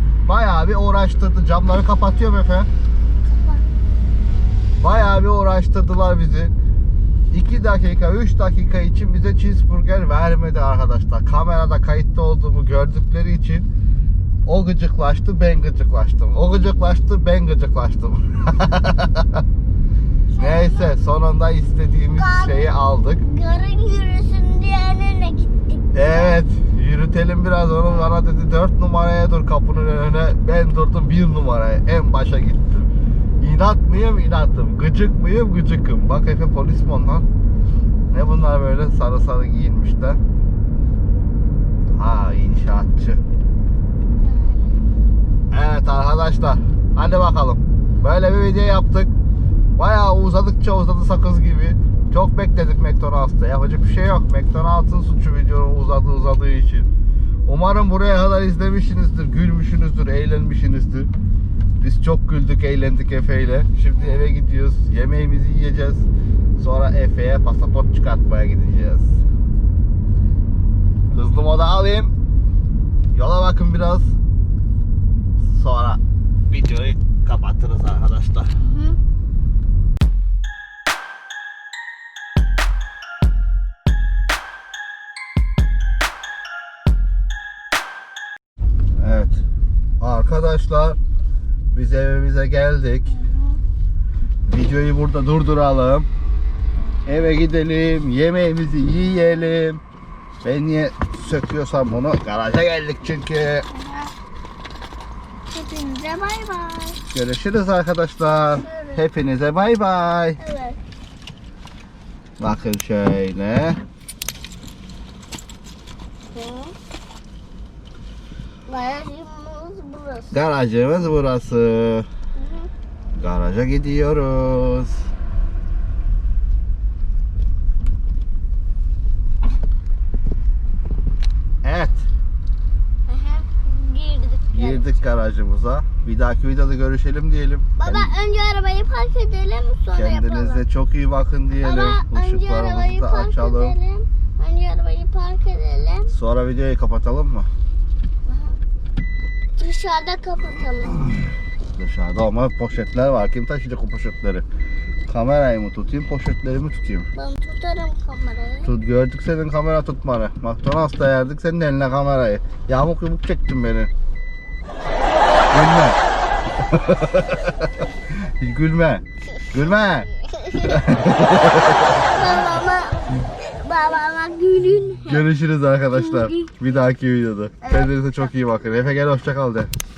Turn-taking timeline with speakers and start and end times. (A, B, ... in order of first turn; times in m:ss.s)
0:00.2-0:02.7 A
0:03.3-0:03.6 B
0:04.8-0:06.5 A
0:07.3-0:13.7 A
0:14.5-0:19.4 A
0:20.3-0:21.0 B
0:20.4-0:23.2 A
0:22.2-0:26.4 B
0:25.9-0:32.9 A
0:27.8-0:28.2 B
0:33.4-0:37.3 A
0:38.1-0:40.2 A
0:41.9-0:43.2 A
0:44.2-0:44.8 B
0:45.5-0:49.1 A
0:49.8-0:56.9 A
0:57.5-1:01.1 A
1:01.8-1:09.2 A
1:04.0-1:04.2 B
1:11.1-1:12.1 A
1:13.1-1:14.1 A
1:15.4-1:18.5 A
1:18.6-1:19.0 B
1:29.0-1:29.4 A
1:30.0-1:31.0 A
1:31.7-1:33.1 A
1:33.1-1:33.6 B
1:34.5-1:36.1 A
1:36.8-1:37.1 B
1:37.1-1:39.8 A
1:39.2-1:39.5 B
1:40.4-1:43.7 A
1:43.7-1:44.1 B
1:45.5-1:47.0 B
1:47.1-1:50.4 A
1:48.6-1:49.0 B
1:50.4-1:50.8 B
1:52.4-1:53.8 A
1:56.3-1:56.8 B
1:58.7-2:00.4 B
2:00.3-2:02.1 A
2:02.4-2:02.7 B
2:03.2-2:05.1 A
2:11.6-2:12.1 A
2:13.1-2:15.0 B
2:14.5-2:18.1 A
2:17.8-2:20.6 B
2:19.9-2:23.8 A
2:21.6-2:26.1 B
2:26.1-2:27.5 A
2:28.3-2:28.6 B
2:29.6-2:31.1 B
2:31.8-2:34.4 A
2:35.1-2:37.1 A
2:37.2-2:38.7 B
2:38.6-2:43.9 A
2:45.5-2:46.0 A
2:46.6-2:50.1 A
2:49.4-2:50.8 B
2:50.6-2:52.0 A
2:51.9-2:55.3 B
2:55.1-2:59.7 A
2:55.9-2:56.6 B
2:57.6-2:58.4 B